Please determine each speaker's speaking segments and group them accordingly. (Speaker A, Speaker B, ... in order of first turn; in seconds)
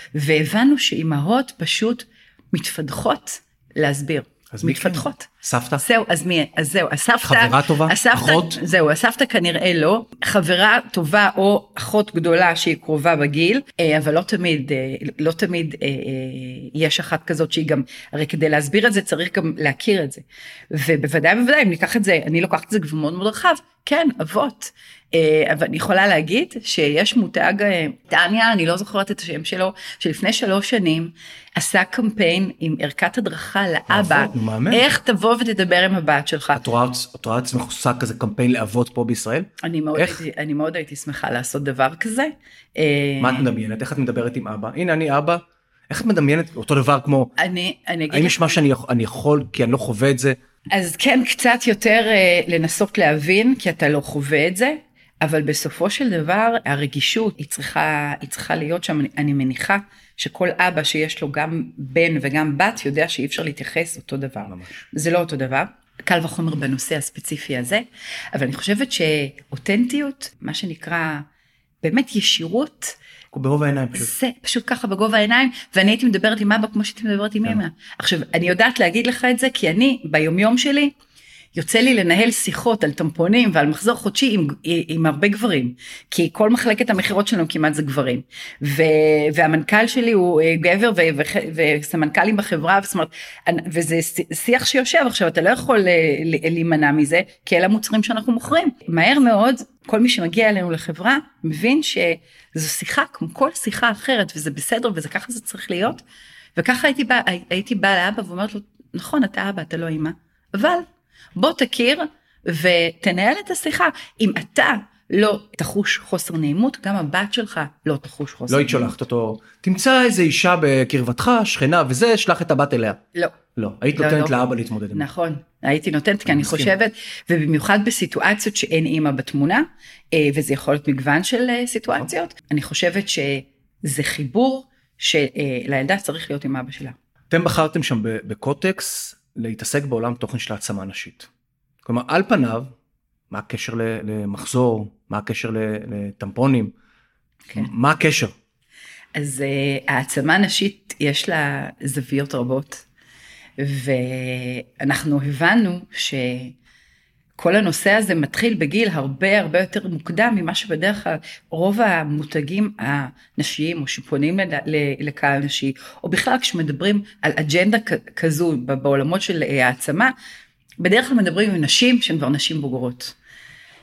Speaker A: 0.1-36.6, 39.6-43.5, 47.4-48.6, 50.7-71.3, 71.8-73.0, 73.9-80.9, 81.5-106.0, 106.6-119.0, 124.0-124.3, 124.9-136.9, 149.2-152.8, 153.6-156.6, 157.4-170.1, 170.8-173.2
Speaker B: 4.5-5.8, 7.2-8.6, 33.9-34.8, 36.5-40.2, 43.2-47.3, 48.1-50.4, 64.5-64.8, 73.3-74.1, 118.5-123.0, 123.6-125.0, 126.2-126.7, 137.3-141.3, 141.8-142.7, 143.3-146.7, 147.6-148.3